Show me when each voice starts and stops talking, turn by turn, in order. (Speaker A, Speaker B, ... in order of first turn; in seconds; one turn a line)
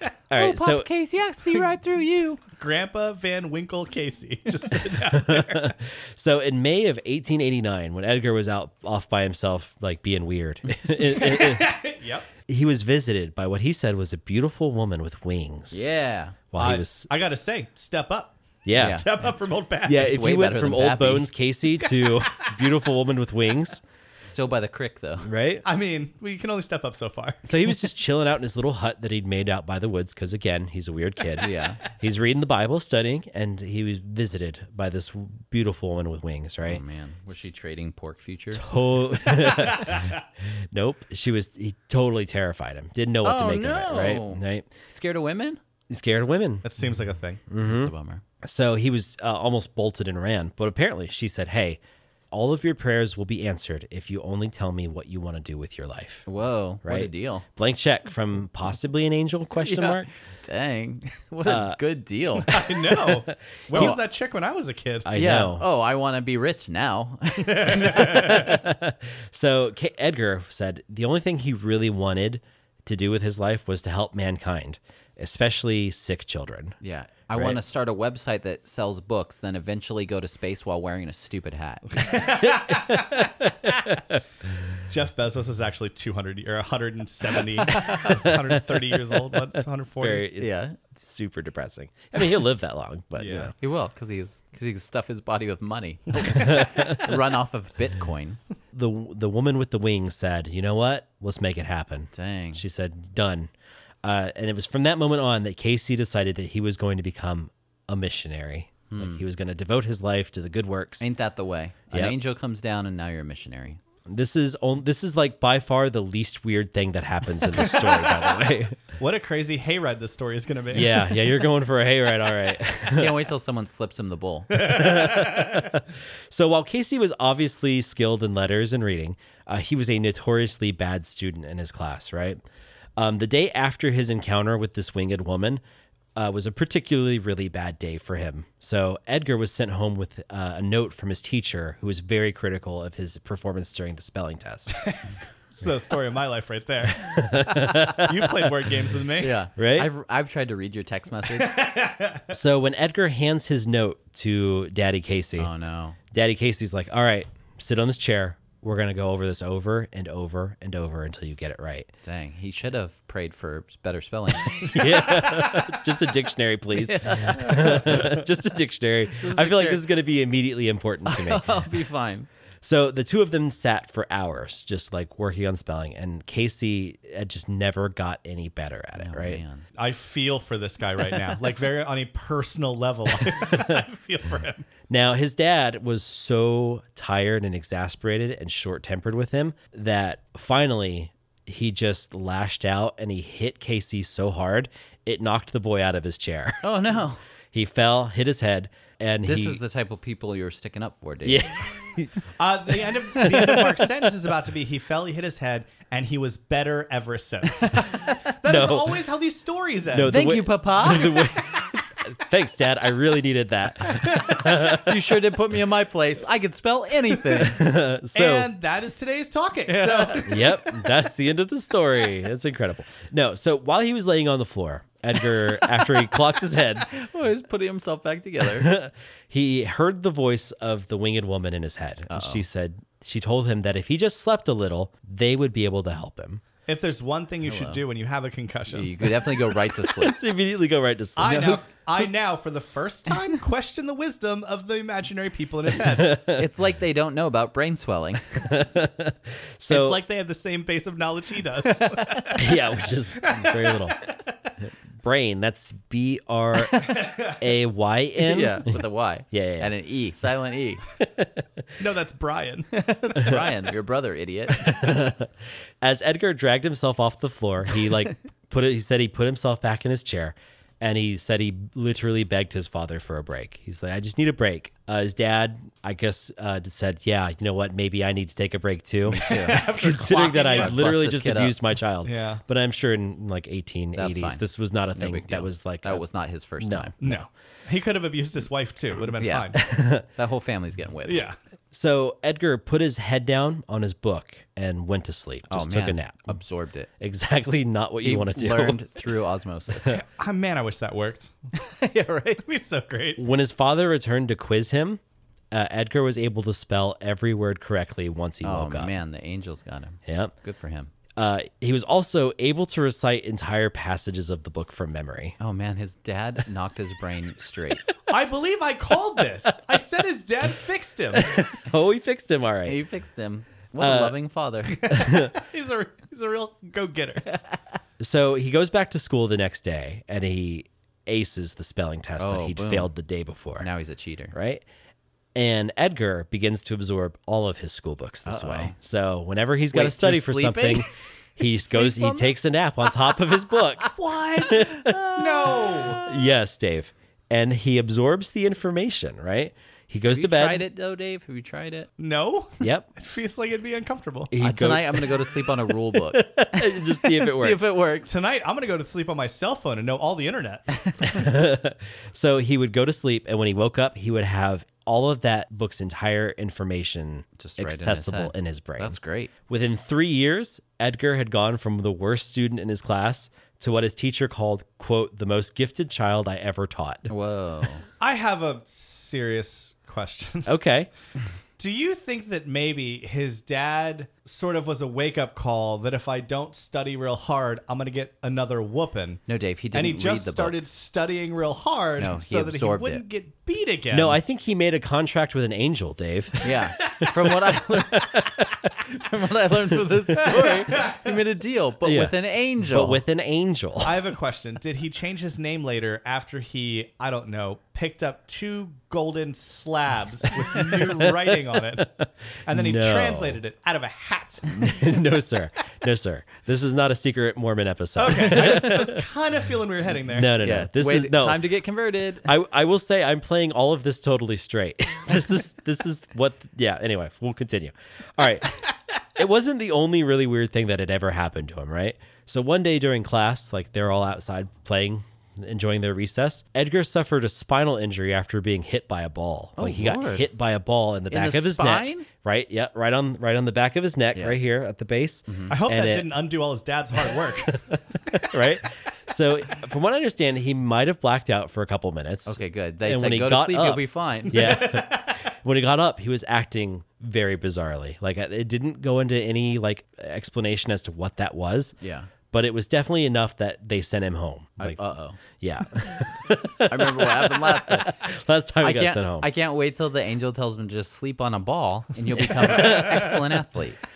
Speaker A: 0.3-0.9
Speaker B: 0.3-2.4
Speaker C: 2.6-5.7
Speaker A: 5.0-11.8
Speaker C: 11.0-12.3
Speaker A: 12.5-15.9
Speaker B: 15.7-16.4
Speaker A: 16.5-17.1
Speaker C: 16.6-20.1
Speaker A: 18.6-19.1
Speaker B: 18.8-19.1
Speaker A: 19.8-23.8
Speaker B: 19.9-21.3
Speaker C: 21.9-22.6
Speaker B: 24.2-25.3
Speaker A: 25.2-25.6
Speaker C: 25.6-27.5
Speaker A: 27.4-36.8
Speaker B: 31.4-31.8
Speaker B: 36.6-38.8
Speaker A: 38.5-40.2
Speaker C: 39.3-40.2
Speaker A: 40.7-44.7
Speaker B: 43.2-45.6
Speaker A: 45.9-46.6
Speaker C: 46.6-47.4
Speaker A: 47.5-47.9
Speaker B: 47.6-48.2
Speaker A: 48.4-51.8
Speaker A: 52.3-56.2
Speaker B: 56.3-57.5
Speaker A: 56.8-60.1
Speaker B: 59.6-62.6
Speaker A: 61.5-61.8
Speaker C: 62.4-65.1
Speaker A: 63.0-64.0
Speaker B: 63.7-64.0
Speaker A: 65.0-65.7
Speaker B: 65.1-68.6
Speaker C: 67.4-68.5
Speaker A: 67.8-76.8
Speaker B: 76.8-82.2
Speaker A: 77.3-77.6
Speaker C: 82.0-83.3
Speaker A: 82.3-84.2
Speaker C: 84.9-90.3
Speaker A: 87.8-88.8
Speaker A: 90.0-93.5
Speaker B: 90.4-90.8
Speaker C: 93.2-93.5
Speaker B: 93.6-98.4
Speaker A: 96.4-97.0
Speaker A: 98.7-103.5
Speaker B: 102.1-102.6
Speaker A: 104.0-111.1
Speaker B: 108.9-109.2
Speaker B: 111.0-113.8
Speaker A: 114.1-118.8
Speaker C: 117.8-118.2
Speaker C: 119.0-121.2
Speaker A: 120.7-123.2
Speaker B: 122.9-124.8
Speaker A: 124.5-132.4
Speaker C: 124.7-125.6
Speaker A: 133.0-135.6
Speaker A: 136.2-144.7
Speaker C: 144.8-145.0
Speaker C: 145.6-149.4
Speaker A: 146.9-148.4
Speaker B: 149.2-151.6
Speaker A: 149.6-149.9
Speaker C: 151.3-152.3
Speaker A: 152.3-155.5
Speaker B: 155.4-156.0
Speaker A: 156.1-161.9
Speaker B: 162.0-165.5
Speaker A: 164.5-171.5
Speaker B: 166.7-168.2
Speaker B: 169.2-169.8
Speaker B: 171.1-172.3
Speaker A: 172.6-179.4
Speaker B: 179.0-179.7
Speaker C: 179.8-184.7
Speaker A: 183.4-183.8
Speaker A: 184.9-196.6
Speaker B: 196.6-197.2
Speaker A: 197.5-199.6
Speaker B: 199.2-201.6
Speaker A: 201.2-202.1
Speaker C: 202.4-210.2
Speaker A: 203.2-203.9
Speaker A: 208.4-209.0
Speaker A: 209.9-215.1
Speaker B: 210.1-211.3
Speaker B: 214.5-217.7
Speaker A: 217.4-218.5
Speaker C: 218.1-220.6
Speaker B: 219.7-220.2
Speaker A: 220.2-226.9
Speaker B: 226.8-228.7
Speaker A: 228.4-236.4
Speaker B: 232.1-232.4
Speaker C: 236.7-239.2
Speaker B: 237.5-237.8
Speaker B: 238.7-240.2
Speaker A: 239.8-241.6
Speaker C: 241.2-246.2
Speaker A: 245.8-246.5
Speaker B: 246.1-248.5
Speaker A: 248.4-250.0
Speaker C: 249.7-252.6
Speaker B: 251.7-252.4
Speaker A: 252.3-254.0
Speaker C: 253.2-254.1
Speaker A: 255.0-258.8
Speaker C: 256.7-257.4
Speaker B: 258.2-260.8
Speaker A: 259.3-259.7
Speaker A: 261.0-261.6
Speaker C: 261.8-263.4
Speaker B: 262.9-264.9
Speaker A: 264.6-286.0
Speaker B: 279.1-281.6
Speaker C: 279.2-280.8
Speaker C: 282.0-282.4
Speaker B: 283.9-286.9
Speaker A: 286.6-287.2
Speaker C: 287.0-289.6
Speaker B: 289.2-291.2
Speaker A: 289.6-290.1
Speaker C: 291.1-291.4
Speaker A: 291.7-296.4
Speaker B: 295.5-296.9
Speaker A: 297.0-298.9
Speaker B: 298.0-300.0
Speaker C: 299.9-301.3
Speaker B: 301.6-302.4
Speaker C: 302.4-303.2
Speaker A: 303.2-305.0
Speaker A: 305.5-308.9
Speaker B: 308.4-310.9
Speaker A: 310.1-310.3
Speaker A: 311.2-315.4
Speaker B: 315.4-317.8
Speaker C: 318.1-321.4
Speaker A: 321.1-322.8
Speaker B: 322.6-324.9
Speaker A: 323.8-324.2
Speaker C: 324.7-327.3
Speaker A: 324.9-325.3
Speaker A: 328.0-333.7
Speaker B: 332.2-332.9
Speaker B: 333.6-334.3
Speaker A: 334.3-334.6
Speaker A: 335.4-343.9
Speaker B: 338.2-338.8
Speaker B: 339.7-340.9
Speaker B: 341.4-342.3
Speaker C: 343.9-346.0
Speaker A: 344.4-345.0
Speaker B: 344.5-346.2
Speaker A: 346.0-350.6
Speaker B: 350.1-351.9
Speaker C: 352.0-354.3
Speaker A: 352.6-352.9
Speaker A: 354.3-357.7
Speaker B: 354.4-358.2
Speaker C: 358.1-361.1
Speaker A: 361.0-369.0
Speaker B: 367.4-369.3
Speaker A: 369.5-377.1
Speaker B: 377.1-377.9
Speaker C: 378.0-380.5
Speaker A: 380.5-380.9
Speaker C: 381.6-394.2
Speaker B: 389.3-390.6
Speaker B: 392.0-393.0
Speaker A: 393.9-397.0
Speaker B: 396.4-398.3
Speaker A: 397.9-398.7
Speaker B: 398.9-403.0
Speaker C: 400.5-401.0
Speaker A: 401.8-404.0
Speaker C: 403.8-414.7
Speaker A: 410.5-411.2
Speaker A: 411.8-413.4
Speaker A: 414.5-419.0
Speaker C: 418.0-420.3
Speaker A: 420.1-421.4
Speaker B: 420.4-422.3
Speaker A: 422.2-446.1
Speaker B: 439.6-440.3
Speaker B: 441.1-442.1
Speaker B: 445.3-445.5
Speaker C: 445.5-448.3
Speaker A: 447.5-461.8
Speaker B: 452.3-454.6
Speaker C: 454.4-455.2
Speaker B: 461.8-462.1
Speaker A: 462.3-464.8
Speaker B: 464.6-465.2
Speaker A: 465.4-469.3
Speaker B: 466.7-468.0
Speaker B: 468.6-473.8
Speaker A: 472.2-473.1